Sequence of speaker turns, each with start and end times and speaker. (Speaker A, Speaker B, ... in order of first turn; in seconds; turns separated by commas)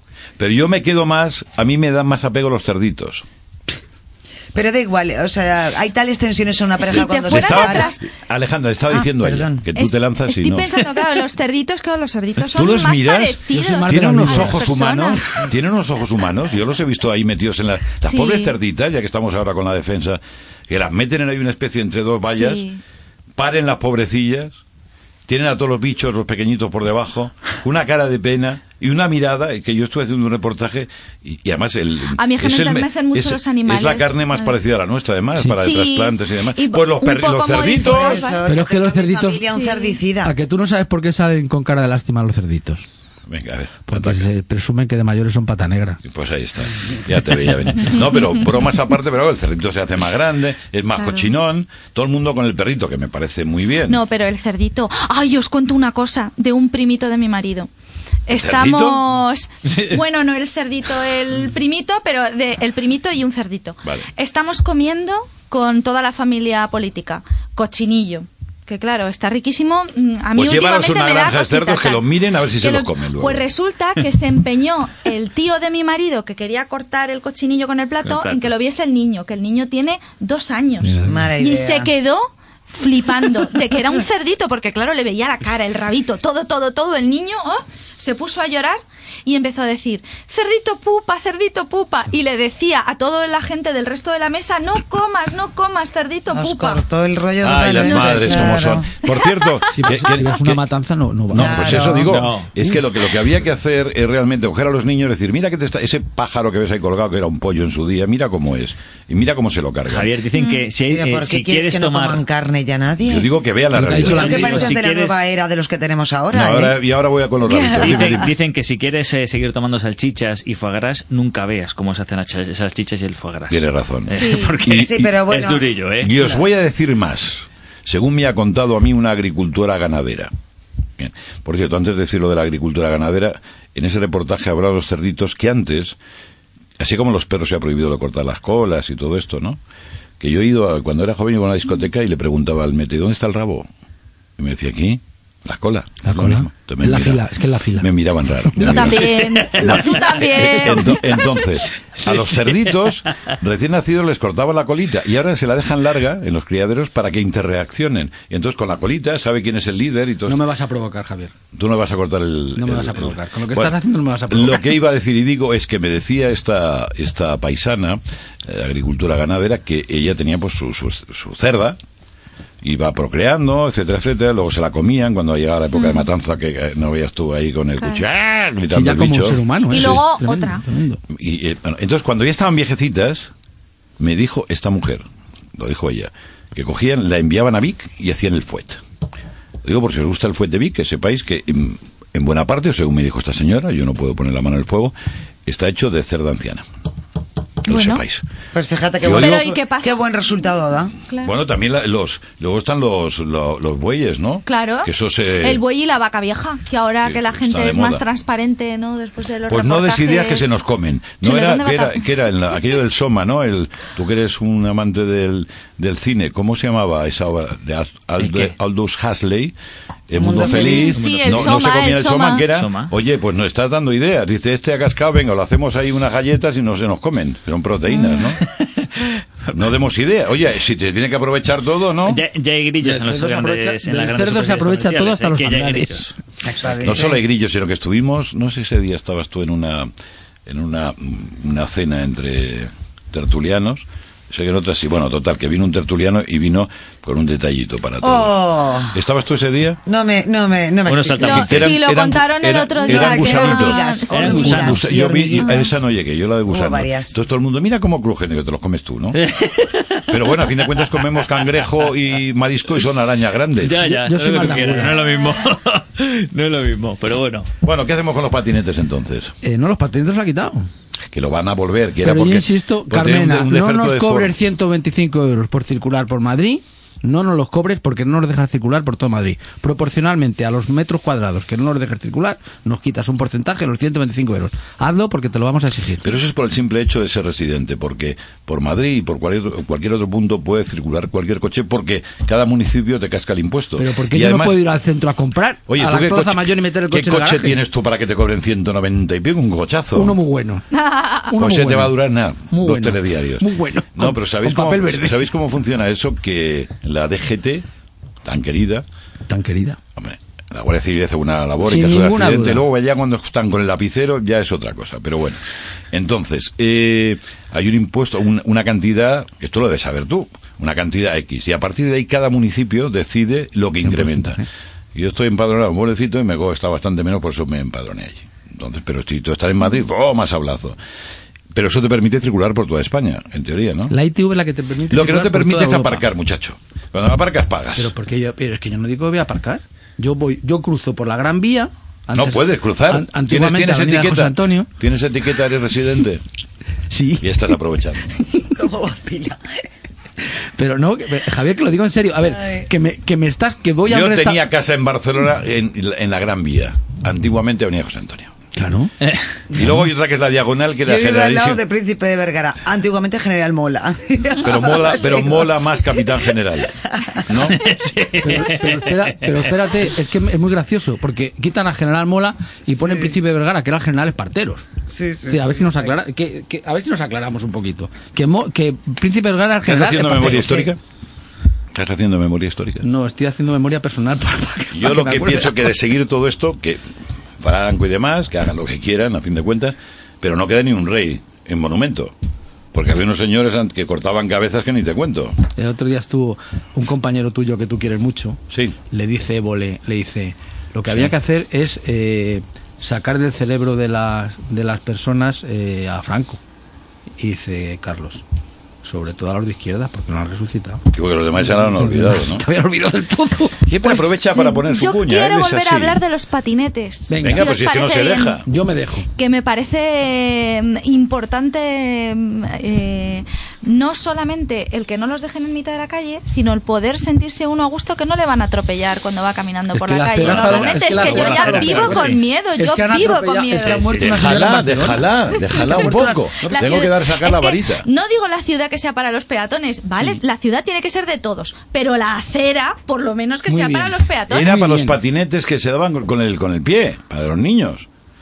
Speaker A: 0.4-3.2, Speaker B: 4.5-7.9, Speaker C: 6.8-8.0, Speaker A: 7.2-10.8, Speaker B: 8.9-9.6, Speaker C: 9.7-15.2, Speaker A: 12.5-22.6, Speaker D: 13.5-14.6, Speaker C: 18.0-18.5, Speaker C: 22.3-22.8, Speaker A: 23.4-24.6, Speaker A: 25.3-38.3, Speaker C: 32.1-34.5, Speaker C: 35.5-38.5, Speaker B: 37.8-40.3, Speaker D: 38.5-39.4, Speaker C: 39.5-40.0, Speaker D: 40.2-42.8, Speaker A: 43.3-44.3, Speaker D: 43.9-46.0, Speaker A: 46.0-54.0, Speaker C: 51.0-51.3, Speaker C: 53.9-57.7, Speaker C: 58.3-72.0, Speaker A: 58.3-59.0, Speaker A: 70.3-73.4, Speaker C: 72.6-96.8, Speaker E: 78.0-78.4, Speaker D: 80.8-81.3, Speaker B: 81.0-81.9, Speaker B: 96.3-98.9, Speaker A: 97.4-100.6, Speaker C: 97.6-98.6, Speaker C: 99.1-99.6, Speaker D: 99.7-101.9, Speaker A: 101.3-110.1, Speaker B: 101.3-102.2, Speaker E: 102.1-102.5, Speaker E: 109.9-112.2, Speaker C: 110.3-110.7, Speaker B: 110.9-113.3, Speaker A: 113.0-114.6, Speaker D: 113.7-114.7, Speaker B: 113.9-116.8, Speaker E: 114.1-115.2, Speaker A: 116.3-118.3, Speaker B: 117.5-118.3, Speaker E: 117.8-126.2, Speaker A: 123.5-125.2, Speaker C: 124.1-124.5, Speaker B: 124.7-125.7, Speaker A: 126.0-130.3, Speaker A: 131.0-136.0, Speaker A: 136.8-139.6, Speaker A: 140.2-143.7, Speaker A: 144.4-147.2, Speaker D: 146.0-147.9, Speaker A: 147.8-160.4, Speaker D: 148.5-148.9, Speaker C: 148.6-151.4, Speaker E: 149.1-150.2, Speaker D: 160.3-161.3, Speaker A: 161.5-163.8, Speaker D: 162.6-164.7, Speaker A: 164.3-171.8, Speaker A: 172.6-179.9, Speaker C: 175.7-176.1, Speaker D: 178.7-181.0, Speaker C: 179.7-180.6, Speaker A: 181.1-183.3, Speaker A: 184.0-185.0, Speaker A: 185.5-188.8, Speaker A: 189.6-194.9, Speaker A: 195.4-196.6, Speaker A: 197.6-198.2, Speaker C: 197.7-198.0, Speaker B: 198.5-200.9, Speaker A: 199.0-199.5, Speaker C: 199.0-200.0, Speaker A: 201.2-205.6, Speaker C: 204.4-210.5, Speaker A: 207.0-208.0, Speaker A: 209.5-219.5, Speaker C: 211.2-212.1, Speaker E: 218.2-218.5, Speaker A: 220.1-228.4, Speaker B: 220.2-220.9, Speaker C: 220.4-222.5, Speaker D: 220.8-221.5, Speaker E: 222.5-222.9, Speaker C: 227.9-228.3, Speaker A: 229.5-232.2, Speaker E: 232.1-236.1, Speaker D: 232.8-236.1, Speaker B: 236.4-237.2, Speaker A: 236.8-239.9, Speaker A: 240.5-248.4, Speaker B: 248.0-249.0, Speaker A: 248.9-249.8, Speaker B: 249.8-251.7, Speaker E: 250.9-251.8, Speaker C: 251.2-254.8, Speaker A: 251.3-259.2, Speaker B: 252.8-255.7, Speaker E: 254.1-254.8, Speaker C: 255.4-255.7, Speaker B: 256.5-257.2, Speaker E: 259.1-261.6, Speaker A: 260.1-263.8, Speaker E: 263.6-267.5, Speaker D: 263.8-265.0, Speaker A: 267.6-269.3, Speaker D: 269.4-270.7, Speaker A: 271.1-274.3, Speaker D: 272.0-286.1, Speaker A: 286.0-294.6, Speaker D: 293.8-297.6, Speaker A: 295.7-300.2, Speaker D: 299.9-300.6, Speaker C: 300.7-301.3, Speaker D: 301.3-302.0, Speaker A: 301.4-307.6, Speaker D: 302.5-305.3, Speaker A: 308.2-308.8, Speaker D: 309.3-309.8, Speaker A: 309.9-315.4, Speaker D: 311.6-312.6, Speaker A: 315.9-324.4, Speaker D: 323.8-324.4, Speaker A: 324.9-330.8, Speaker A: 331.5-333.9, Speaker D: 333.9-336.0, Speaker A: 334.9-337.9, Speaker D: 337.8-344.7, Speaker A: 342.1-346.2, Speaker D: 346.9-347.3, Speaker A: 347.2-348.2, Speaker B: 348.4-349.4, Speaker D: 350.6-354.4, Speaker A: 353.9-358.4, Speaker D: 358.5-358.9, Speaker B: 359.5-359.8, Speaker A: 359.5-361.6, Speaker B: 360.8-366.2, Speaker A: 364.4-366.7, Speaker B: 366.9-367.2, Speaker A: 367.3-367.6, Speaker E: 367.6-369.1, Speaker D: 368.2-374.6, Speaker B: 372.8-373.1, Speaker B: 374.9-375.9, Speaker D: 375.3-380.7, Speaker A: 379.6-380.8, Speaker A: 381.7-382.9, Speaker D: 382.8-385.8, Speaker A: 384.7-386.8, Speaker A: 387.4-392.1, Speaker A: 392.7-395.4, Speaker D: 395.6-398.4, Speaker D: 398.9-406.4, Speaker A: 400.9-401.1, Speaker D: 407.2-408.2, Speaker D: 408.8-410.8, Speaker A: 410.9-412.4, Speaker D: 411.4-413.6, Speaker A: 413.6-416.0, Speaker C: 413.8-418.4, Speaker D: 417.1-417.5, Speaker A: 417.2-418.4, Speaker D: 418.4-419.1, Speaker C: 419.2-434.0, Speaker D: 429.7-436.6, Speaker E: 430.2-432.2, Speaker E: 433.6-434.3, Speaker A: 434.0-437.9, Speaker C: 435.4-435.9, Speaker C: 436.4-444.5, Speaker D: 443.5-445.0, Speaker A: 444.3-447.9